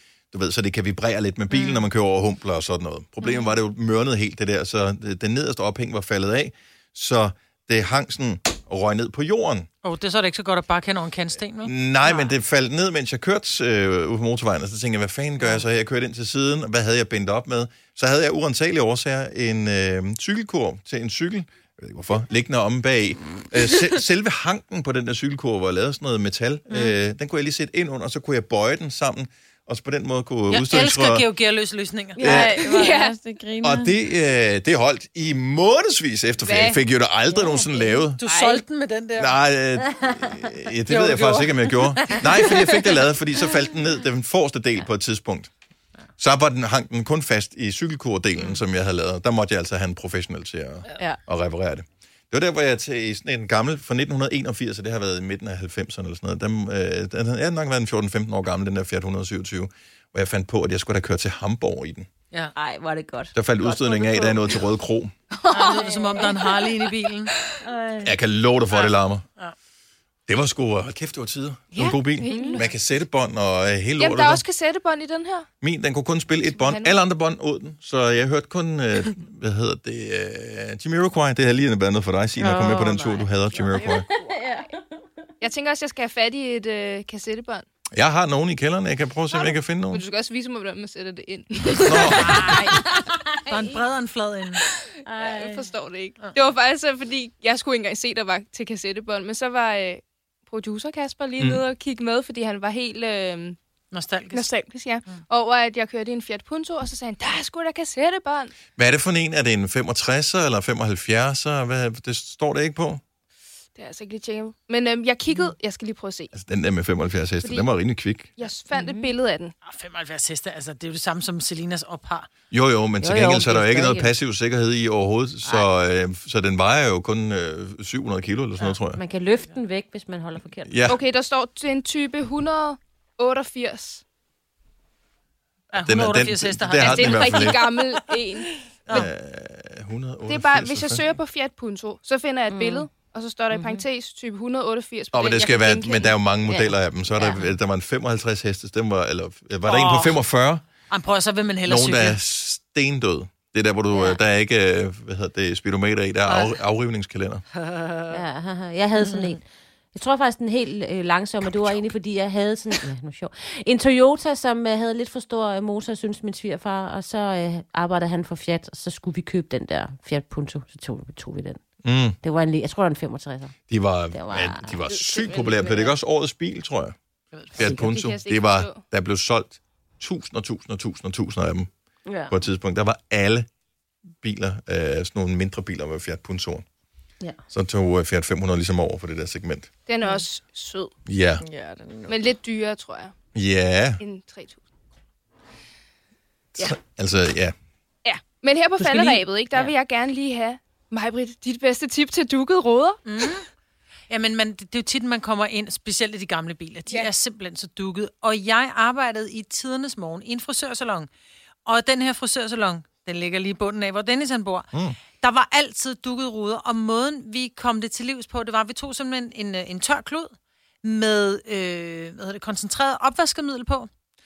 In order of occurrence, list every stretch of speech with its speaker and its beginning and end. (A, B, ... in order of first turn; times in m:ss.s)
0:00.3-0:09.7 A
0:01.5-0:01.9 B
0:09.8-0:11.8 B
0:11.6-0:31.3 A
0:30.5-0:32.3 B
0:32.2-0:34.0 C
0:32.2-0:32.6 A
0:32.6-0:33.2 D
0:33.6-0:38.2 A
0:36.4-0:36.8 D
0:37.4-0:38.0 E
0:38.2-0:39.4 B
0:38.2-0:38.6 D
0:39.2-0:45.5 A
0:40.9-0:43.0 B
0:46.2-1:02.1 A
1:02.6-1:04.6 E
1:03.4-1:05.1 A
1:05.4-1:07.5 D
1:05.5-1:06.4 E
1:05.5-1:07.3 B
1:07.6-1:08.2 E
1:08.0-1:09.2 A
1:08.7-1:09.6 B
1:10.3-1:14.4 A
1:11.7-1:12.8 D
1:12.3-1:12.6 E
1:14.0-1:15.5 D
1:15.6-1:24.1 A
1:16.5-1:17.0 D
1:22.4-1:23.3 B
1:23.8-1:24.4 D
1:23.8-1:25.0 E
1:25.4-1:27.7 D
1:27.9-1:30.0 A
1:29.3-1:33.8 D
1:31.8-1:32.7 A
1:32.1-1:32.7 B
1:32.8-1:33.5 E
1:33.5-1:34.6 B
1:35.0-1:35.7 E
1:35.2-1:43.6 D
1:43.9-1:44.5 B
1:44.3-1:48.5 D
1:48.8-1:53.0 A
1:53.8-1:56.3 D
1:56.3-1:58.3 A
1:58.4-1:59.5 D
1:58.7-1:59.1 E
1:59.6-2:02.3 B
2:02.5-2:09.0 A
2:03.0-2:04.1 E
2:08.9-2:10.8 E
2:10.6-2:11.0 A
2:10.9-2:14.0 D
2:15.7-2:18.0 B
2:15.8-2:17.7 A
2:16.8-2:18.6 D
2:18.9-2:21.1 A
2:20.3-2:26.2 D
2:22.5-2:22.9 E
2:25.1-2:30.6 A
2:26.5-2:27.5 E
2:29.6-2:30.2 B
2:30.9-2:32.2 B
2:31.7-2:37.4 A
2:33.9-2:34.2 E
2:36.3-2:36.6 B
2:37.6-2:38.2 B
2:38.1-2:39.4 E
2:39.1-2:39.3 B
2:39.9-2:51.6 E
2:41.4-2:41.9 A
2:51.8-2:52.2 A
2:52.2-2:53.6 E
2:53.7-2:57.0 A
2:54.1-2:54.8 E
2:54.9-2:55.9 D
2:57.3-2:57.6 B
2:57.5-3:01.7 A
2:57.6-2:57.9 E
2:57.6-2:58.8 D
3:02.1-3:02.3 E
3:02.3-3:03.5 A
3:04.2-3:06.6 A
3:07.5-3:09.7 A
3:09.9-3:10.9 D
3:11.1-3:11.4 A
3:11.4-3:12.3 C
3:12.1-3:13.1 D
3:13.4-3:14.0 A
3:14.0-3:14.6 D
3:16.6-3:17.6 A
3:18.0-3:23.0 D
3:18.8-3:19.7 E
3:23.1-3:23.5 B
3:24.1-3:31.1 B
3:31.7-3:43.9 B